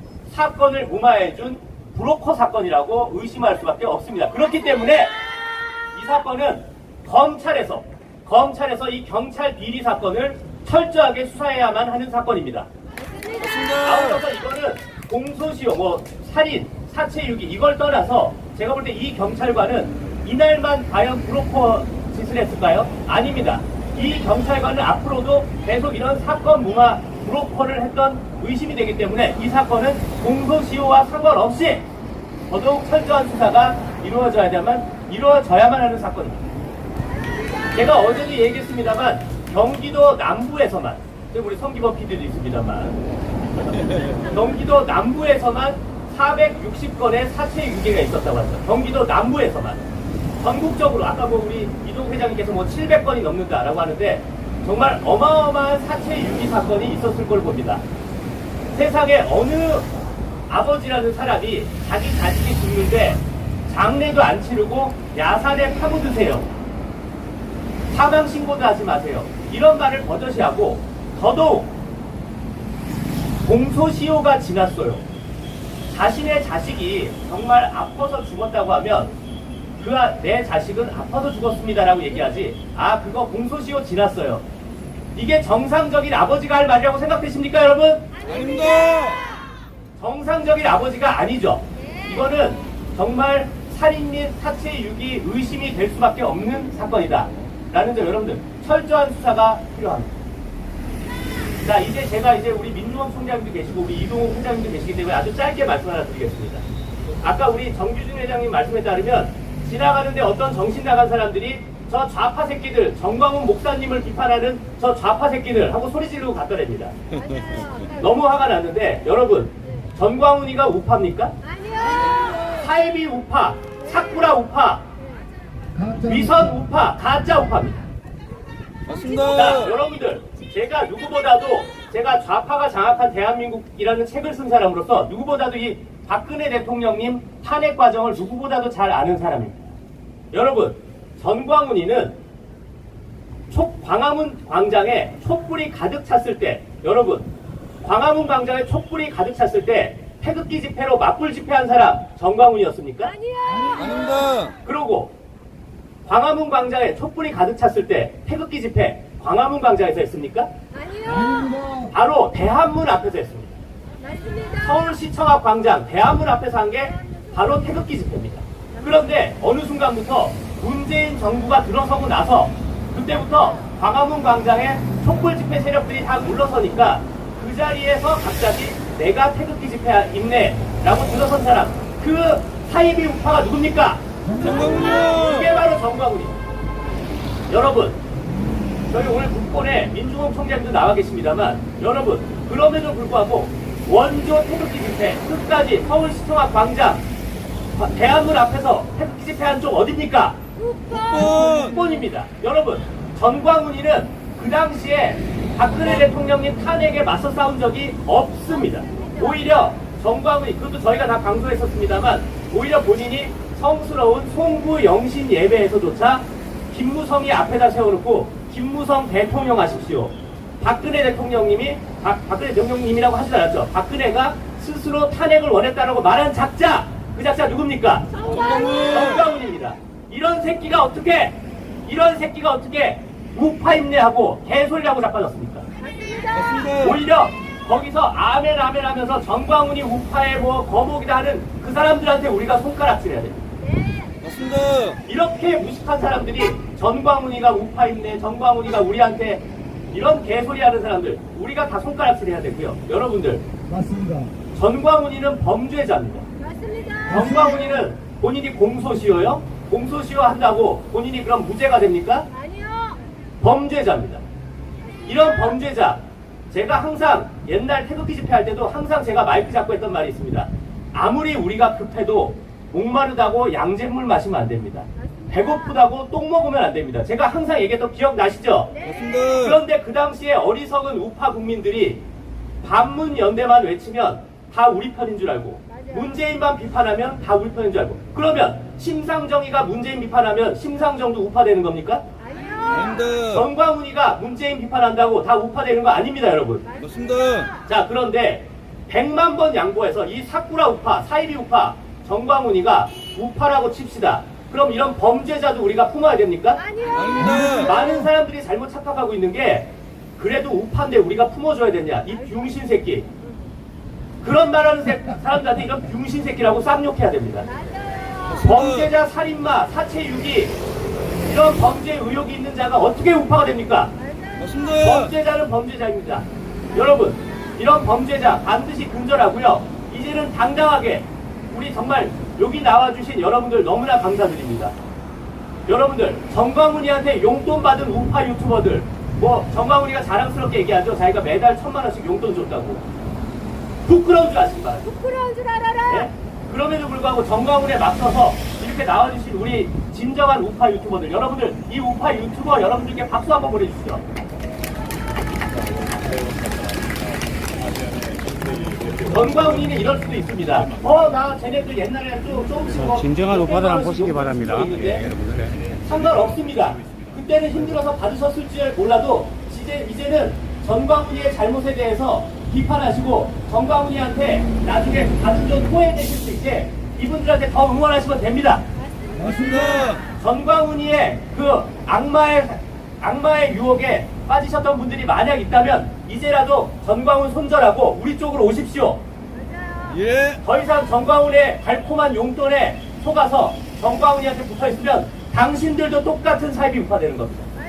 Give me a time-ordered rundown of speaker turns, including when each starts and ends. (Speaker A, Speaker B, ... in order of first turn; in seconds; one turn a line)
Speaker A: 0.3-5.2
Speaker A: 5.9-12.7
Speaker B: 13.1-13.5
Speaker C: 13.4-14.2
Speaker A: 13.8-31.9
Speaker A: 32.5-36.5
Speaker A: 37.7-43.0
Speaker A: 44.1-57.8
Speaker A: 58.7-59.9
Speaker A: 60.5-66.5
Speaker A: 67.9-71.8
Speaker A: 73.4-75.0
Speaker A: 75.9-79.1
Speaker A: 79.8-84.5
Speaker A: 85.1-88.2
Speaker C: 88.3-89.2
Speaker B: 88.3-89.2
Speaker A: 90.0-100.2
Speaker A: 101.6-117.0
Speaker B: 117.2-117.9
Speaker A: 117.9-121.3
Speaker B: 121.6-122.2
Speaker A: 121.9-124.8
Speaker A: 126.0-127.8
Speaker A: 128.9-139.7
Speaker C: 128.9-129.2
Speaker A: 140.3-142.2
Speaker A: 143.5-147.3
Speaker A: 147.8-153.2
Speaker B: 153.2-154.3
Speaker C: 153.8-154.5
Speaker A: 154.6-155.1
Speaker A: 156.1-160.5
Speaker B: 160.8-161.7
Speaker A: 161.8-163.6
Speaker B: 164.1-164.5
Speaker A: 164.5-186.3
Speaker C: 184.6-185.2
Speaker A: 187.5-188.0
Speaker A: 188.9-197.1
Speaker A: 197.7-200.4
Speaker B: 200.7-201.3
Speaker A: 201.1-235.7
Speaker B: 228.2-228.8
Speaker C: 228.3-229.2
Speaker B: 235.9-236.5
Speaker C: 236.3-236.9
Speaker A: 236.7-243.4
Speaker B: 243.8-244.1
Speaker C: 244.2-245.0
Speaker A: 245.0-253.5
Speaker A: 254.5-256.3
Speaker B: 256.5-257.3
Speaker A: 257.1-262.3
Speaker B: 262.5-263.0
Speaker A: 263.4-264.2
Speaker A: 265.1-282.0
Speaker C: 278.9-279.5
Speaker A: 282.6-292.0
Speaker B: 292.3-293.0
Speaker C: 292.6-293.4
Speaker A: 293.3-296.7
Speaker C: 296.8-297.5
Speaker A: 297.6-313.1
Speaker B: 306.7-307.4
Speaker C: 307.0-307.7
Speaker A: 314.2-317.5
Speaker B: 317.7-318.3
Speaker C: 318.3-318.6
Speaker A: 318.3-320.6
Speaker A: 321.3-323.9
Speaker C: 324.4-325.1
Speaker A: 324.7-334.8
Speaker A: 335.7-342.8
Speaker A: 343.9-345.0
Speaker B: 345.0-346.0
Speaker A: 345.9-354.1
Speaker C: 355.5-359.3
Speaker A: 359.1-365.1
Speaker C: 363.2-366.3
Speaker A: 365.8-378.7
Speaker C: 379.2-379.9
Speaker A: 379.2-389.0
Speaker C: 389.9-390.4
Speaker A: 390.4-397.5